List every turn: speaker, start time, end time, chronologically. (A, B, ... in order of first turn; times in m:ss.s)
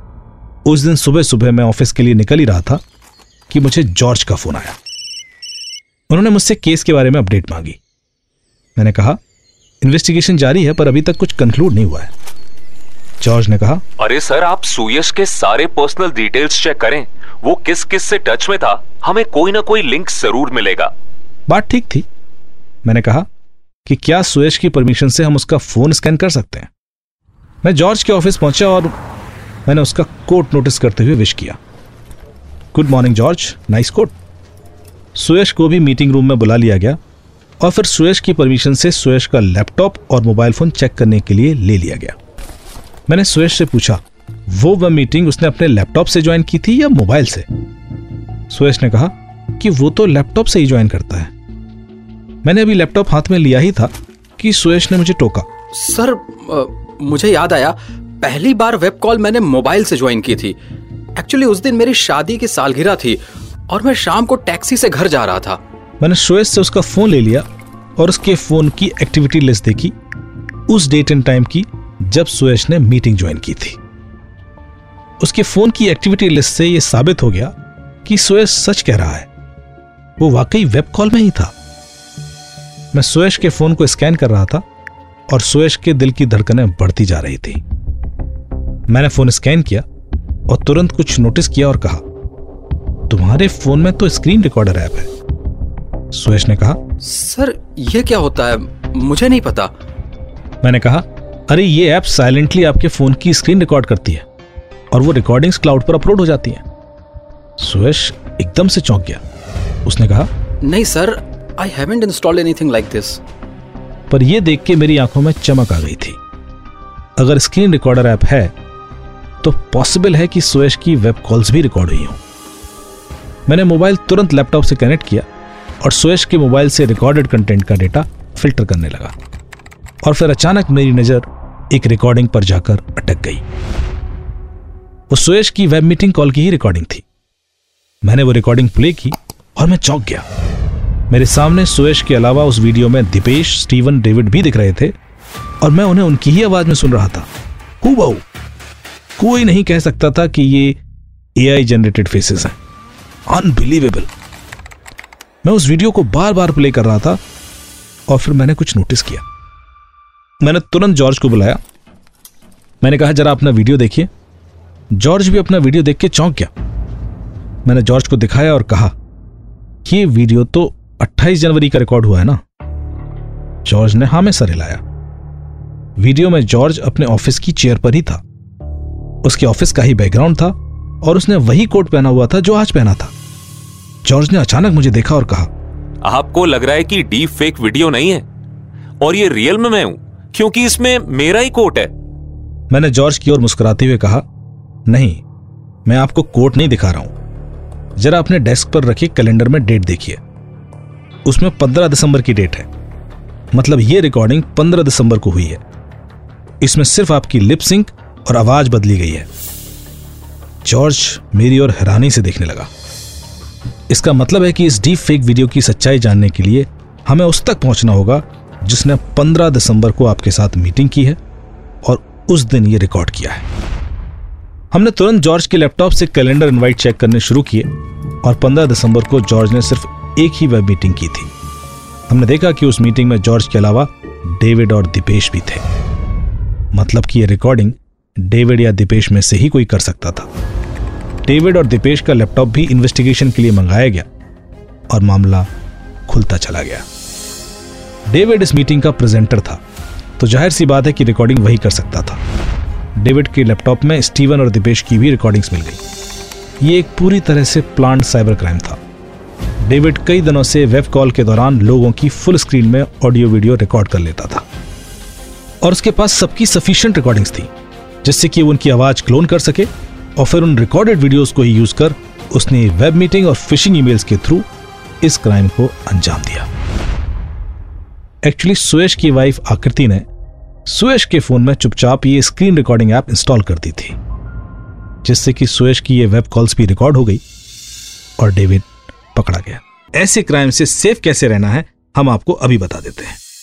0:00.6-0:02.8 A
0:03.5-0:04.8 A
0:06.1-0:07.8 A
0:08.8-0:09.2 A
0:09.8-0:12.1 A
0:13.2-0:13.8 A
0:14.0-0:20.9 B
0:21.5-0:22.0 A
0:22.8-0:23.2 A
0:23.8-0:26.7 A
0:27.6-0:28.9 A
0:29.7-0:31.6 A
0:32.7-0:34.1 A
0:35.2-0:37.0 A
0:37.6-0:42.2 A
0:43.1-0:47.4 A
0:48.5-0:51.3 A
0:52.4-0:55.4 A
0:55.7-1:00.6 C
1:01.2-1:05.6 C
1:06.0-1:07.4 A
1:08.0-1:09.9 A
1:10.7-1:13.8 A
1:15.2-1:19.3 A
1:20.2-1:21.5 A
1:22.9-1:24.6 A
1:25.3-1:27.6 A
1:28.9-1:29.8 A
1:30.5-1:32.0 A
1:33.1-1:35.1 A
1:36.1-1:36.8 A
1:37.0-1:39.7 C
1:40.6-1:44.2 A
1:44.9-1:46.6 A
1:47.6-1:49.2 A
1:49.8-1:50.3 A
1:50.6-1:53.2 C
1:54.1-1:56.2 A
1:57.2-1:58.5 A
1:59.4-2:02.2 A
2:03.5-2:05.2 A
2:05.8-2:09.1 A
2:10.0-2:13.4 A
2:15.1-2:17.0 A
2:18.0-2:20.2 A
2:21.1-2:24.9 A
2:25.6-2:27.3 A
2:27.8-2:28.2 A
2:29.2-2:30.8 A
2:31.4-2:32.6 A
2:33.3-2:34.1 A
2:35.4-2:37.2 A
2:38.1-2:39.2 A
2:40.4-2:41.6 A
2:42.8-2:44.1 A
2:44.9-2:46.5 A
2:47.6-2:48.9 A
2:49.8-2:52.4 A
2:53.6-2:54.8 A
2:56.0-2:58.2 A
2:59.2-3:03.1 A
3:04.0-3:05.5 A
3:06.0-3:08.2 B
3:09.0-3:11.9 B
3:12.7-3:14.2 A
3:14.9-3:15.2 A
3:15.9-3:17.1 A
3:18.0-3:20.2 A
3:21.2-3:22.7 A
3:23.5-3:25.6 A
3:26.6-3:29.3 A
3:30.6-3:32.7 A
3:33.9-3:41.2 A
3:41.8-3:43.4 A
3:44.7-3:47.7 A
3:48.2-3:51.3 A
3:52.1-3:55.6 A
3:56.7-4:00.3 A
4:01.2-4:04.0 A
4:04.9-4:05.5 A
4:06.1-4:06.8 A
4:08.1-4:09.6 A
4:10.2-4:12.2 A
4:13.0-4:15.8 A
4:16.6-4:18.8 A
4:19.6-4:24.4 A
4:25.6-4:27.5 A
4:28.0-4:34.5 A
4:35.0-4:36.5 A
4:38.2-4:40.1 A
4:40.7-4:44.0 A
4:45.0-4:47.2 A
4:48.2-4:53.2 A